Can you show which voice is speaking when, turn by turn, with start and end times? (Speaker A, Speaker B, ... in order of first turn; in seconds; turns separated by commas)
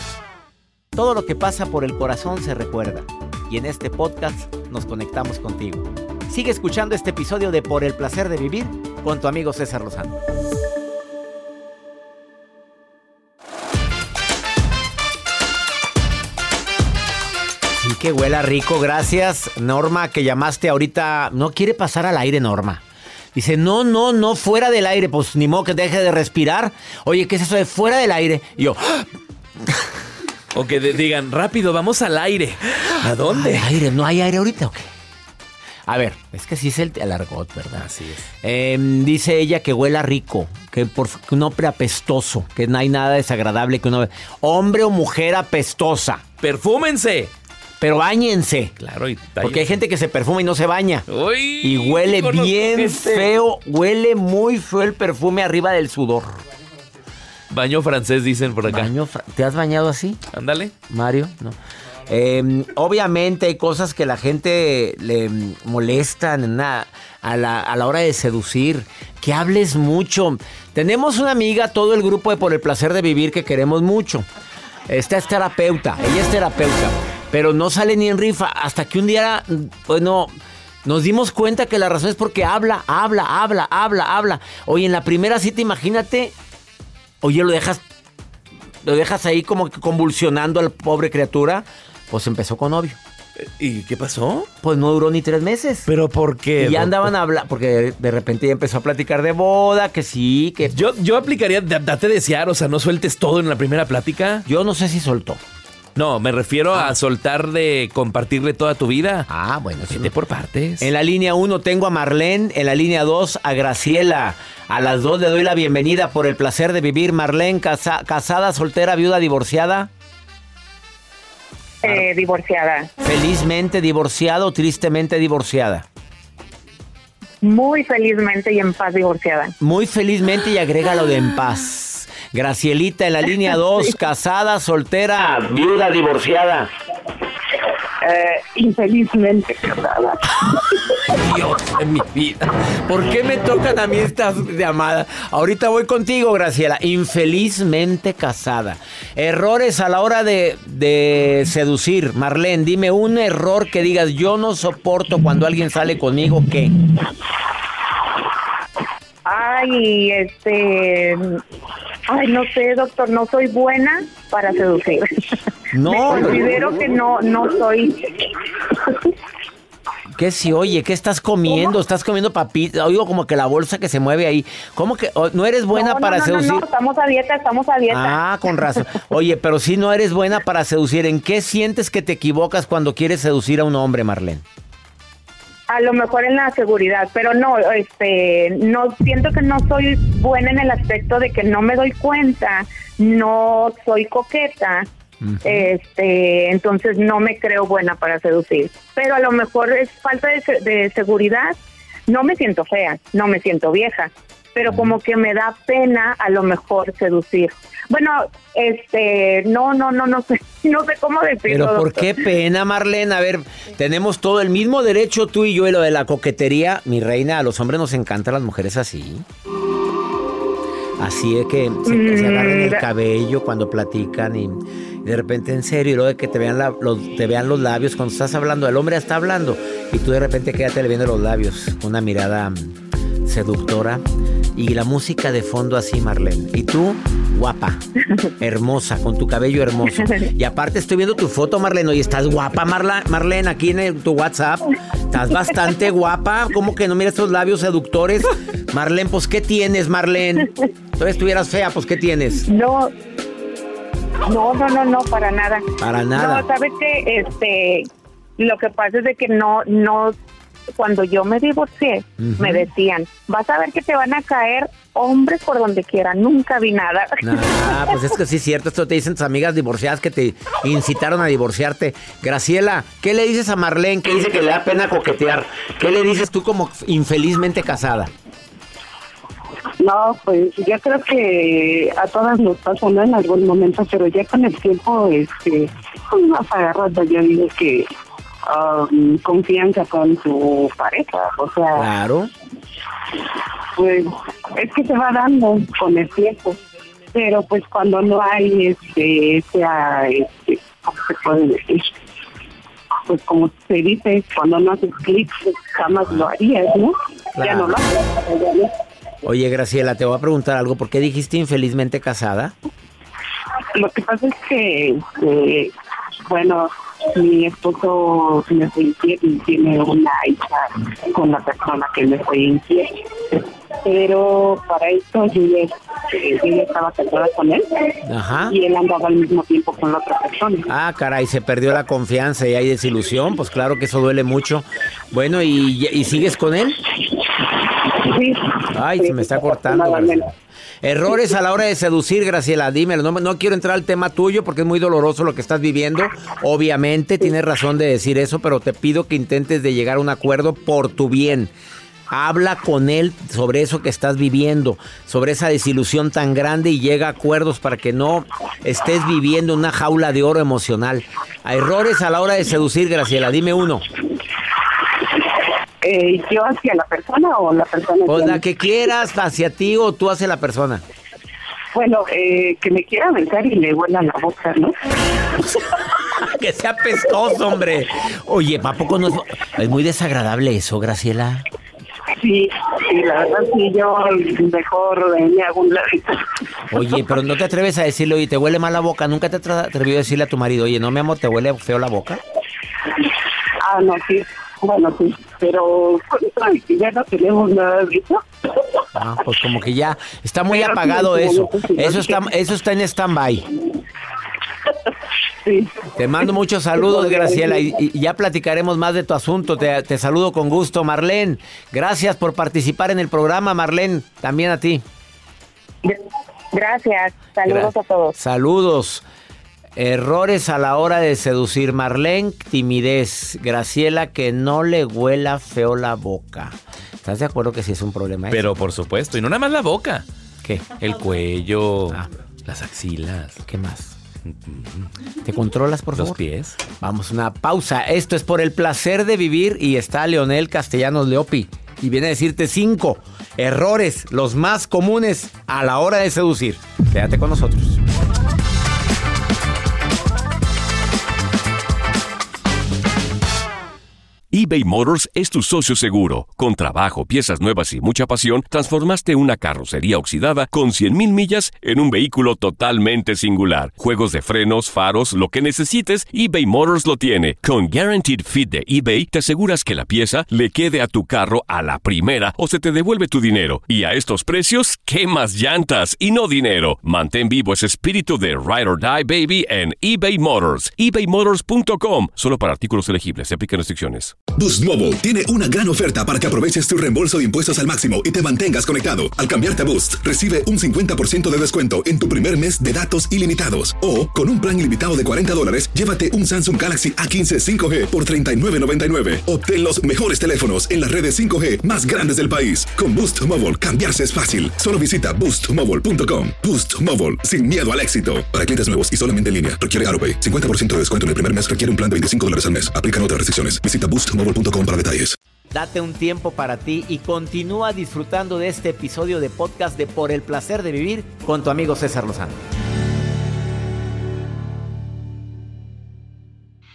Speaker A: 0.9-10.2, Speaker A: 17.7-22.8, Speaker A: 23.3-29.1, Speaker B: 30.5-33.7, Speaker A: 33.3-34.9, Speaker A: 35.9-37.9, Speaker B: 37.8-38.2, Speaker A: 38.4-46.2, Speaker B: 46.4-47.3, Speaker A: 47.8-48.7, Speaker B: 48.8-49.8, Speaker A: 49.4-51.0, Speaker B: 51.1-53.3, Speaker A: 51.6-56.3, Speaker B: 57.5-58.9, Speaker A: 58.7-60.2, Speaker B: 60.3-60.7, Speaker A: 60.9-61.5, Speaker A: 62.1-74.2, Speaker A: 74.9-80.3, Speaker A: 80.8-86.3, Speaker A: 87.2-87.8, Speaker A: 88.8-93.0, Speaker B: 93.4-94.5, Speaker A: 94.6-95.9, Speaker B: 95.9-97.1, Speaker A: 96.6-100.8, Speaker B: 100.7-104.5, Speaker A: 104.5-105.4, Speaker B: 106.0-109.3, Speaker A: 109.3-110.1, Speaker B: 109.9-110.9, Speaker A: 110.8-119.9, Speaker C: 121.8-122.9, Speaker A: 123.0-125.8, Speaker C: 127.4-129.5, Speaker A: 129.6-136.7, Speaker D: 138.0-140.2, Speaker A: 141.1-156.7, Speaker C: 159.2-161.4, Speaker C: 162.1-165.0, Speaker A: 165.7-166.5, Speaker C: 165.8-168.3, Speaker A: 170.1-176.6, Speaker C: 175.7-178.2, Speaker A: 177.9-184.4, Speaker C: 185.7-194.9, Speaker A: 195.2-195.7, Speaker C: 195.4-201.6, Speaker C: 202.1-212.1, Speaker A: 204.7-204.9, Speaker A: 211.5-219.2, Speaker A: 221.0-234.0, Speaker C: 221.9-222.8, Speaker A: 234.5-237.8, Speaker A: 238.4-252.5, Speaker C: 252.5-252.9, Speaker C: 254.2-260.1, Speaker A: 255.8-256.4, Speaker C: 260.8-267.5, Speaker A: 262.2-262.7, Speaker A: 267.2-278.1, Speaker D: 279.8-287.9, Speaker D: 288.5-291.9, Speaker A: 291.7-292.3, Speaker D: 293.8-296.6, Speaker D: 297.1-301.9, Speaker D: 303.1-308.7, Speaker A: 307.3-307.8, Speaker A: 309.2-312.5, Speaker D: 313.7-315.7, Speaker D: 316.3-323.0, Speaker D: 323.8-330.7, Speaker A: 328.0-328.5, Speaker A: 330.7-336.8, Speaker D: 338.0-340.3, Speaker A: 338.7-340.3, Speaker A: 340.8-351.5, Speaker A: 352.1-363.8, Speaker D: 365.8-368.4, Speaker A: 368.1-370.8, Speaker D: 371.7-374.8, Speaker A: 376.1-381.4, Speaker D: 382.2-386.4, Speaker A: 386.7-392.2, Speaker D: 393.6-398.2, Speaker A: 398.9-403.5, Speaker D: 400.5-402.3, Speaker D: 405.4-405.9, Speaker A: 406.0-414.8, Speaker D: 406.8-407.8, Speaker C: 415.8-418.1, Speaker A: 417.4-419.0, Speaker A: 419.8-428.5, Speaker B: 428.3-430.0, Speaker A: 430.4-430.7, Speaker B: 430.8-433.4, Speaker A: 433.4-433.9, Speaker B: 434.3-434.9, Speaker A: 435.2-436.2, Speaker B: 435.9-436.6, Speaker A: 436.8-447.8, Speaker E: 454.3-484.1, Speaker F: 484.4-515.1, Speaker A: 515.5-522.4